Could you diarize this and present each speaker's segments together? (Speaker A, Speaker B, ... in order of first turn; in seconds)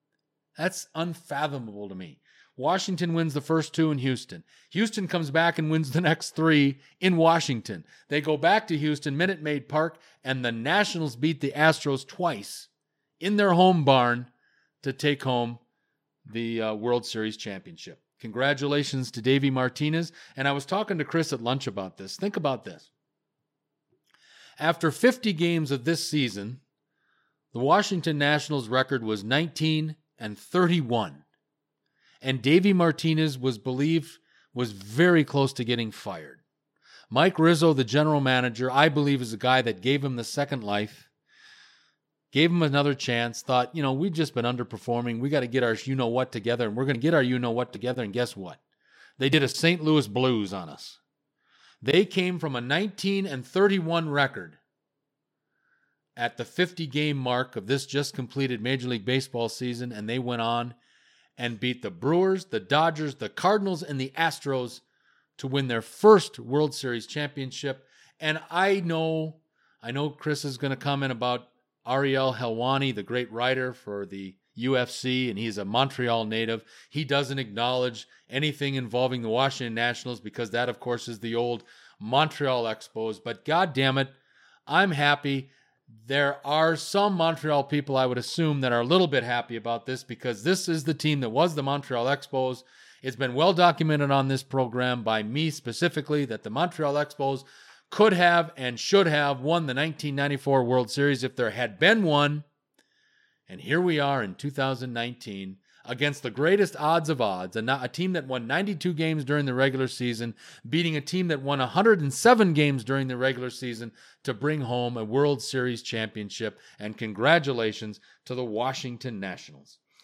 Speaker A: 0.6-12.7, 13.2-14.3, 14.8-15.6, 16.2-22.9, 24.6-26.6, 27.5-31.2, 32.2-36.4, 37.1-41.1, 42.3-48.6, 49.2-51.0, 51.8-54.6, 56.1-60.8, 61.4-64.8, 65.4-84.2, 84.7-85.5, 86.0-102.4, 103.5-119.8